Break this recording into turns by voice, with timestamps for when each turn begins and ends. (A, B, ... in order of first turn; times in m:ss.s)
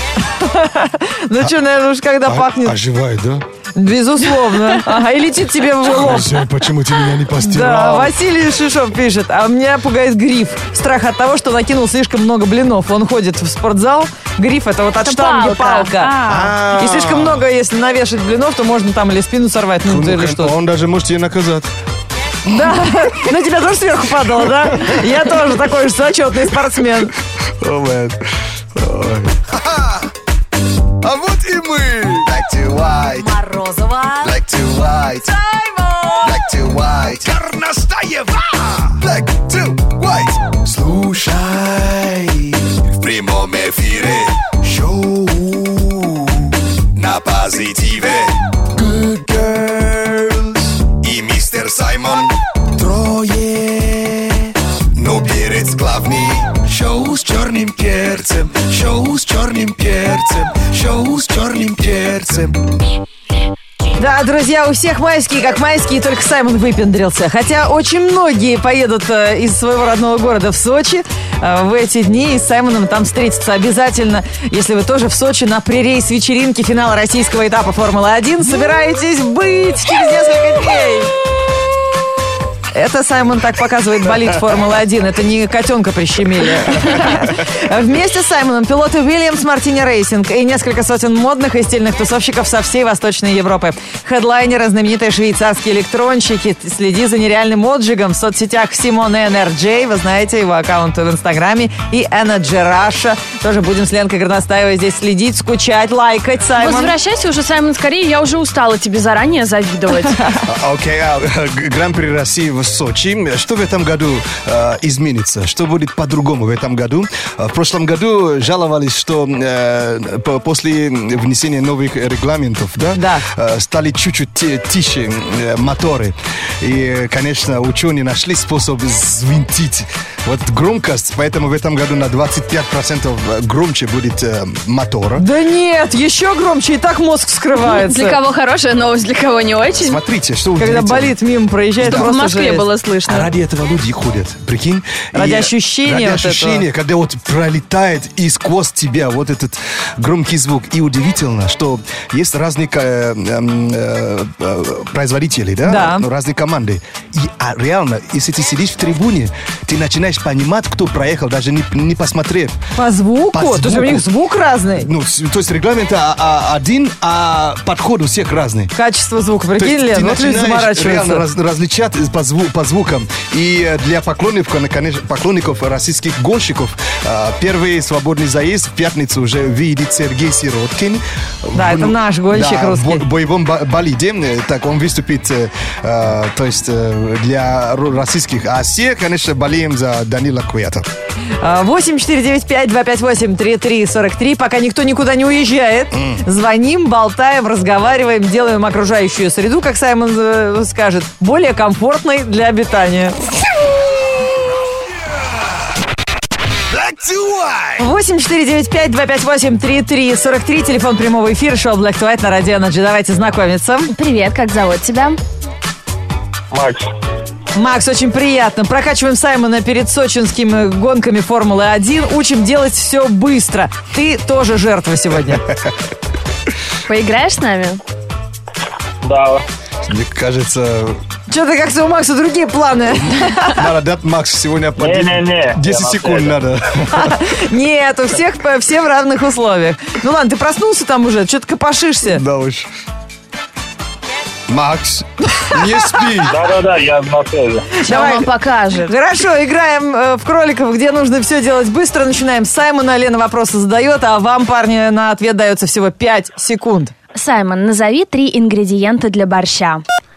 0:00.3-0:02.8 A
0:02.3-0:03.4 B
0:03.8-0:06.4 A
0:05.8-0:08.1 B
0:07.3-0:20.5 A
0:15.0-0:16.6 C
0:16.3-0:17.5 B
0:19.8-0:21.7 B
0:22.4-0:27.1 A
0:24.4-0:24.9 B
0:27.6-0:28.2 B
0:28.8-0:30.1 B
0:31.0-0:33.3 B
0:33.1-0:34.4 A
0:34.2-0:35.3 B
0:35.3-0:36.3 A
0:36.2-1:02.8 B
1:04.0-1:21.1 A
1:22.7-1:46.9 A
1:46.6-1:50.2 C
1:50.4-2:15.2 B
2:03.0-2:03.2 A
2:15.2-2:18.2 A
2:17.6-2:20.0 C
2:19.8-2:21.2 B
2:20.6-2:22.7 A
2:21.8-2:22.2 B
2:21.8-2:23.3 C
2:23.0-2:42.6 B
2:25.1-2:26.7 A
2:35.6-2:36.1 A
2:42.8-2:44.9 A
2:43.3-2:44.1 B
2:44.7-2:48.7 B
2:48.7-2:51.3 A
2:49.6-3:10.9 B
3:01.5-3:03.0 A
3:11.4-3:23.2 A
3:15.9-3:16.2 B
3:26.7-3:27.8 B
3:27.8-3:33.9 A
3:33.9-3:35.2 C
3:36.5-3:36.9 D
3:37.5-3:45.4 A
3:45.5-3:45.8 B
3:46.9-3:47.8 C
3:49.0-3:49.4 D
3:49.9-3:51.0 B
3:51.3-3:53.7 A
3:52.9-3:57.2 B
3:54.8-3:56.4 D
3:56.9-4:02.2 A
4:02.1-4:02.7 B
4:04.5-4:06.4 B
4:06.2-4:07.8 D
4:07.8-4:16.9 A
4:07.9-4:08.9 C
4:17.2-4:19.8 C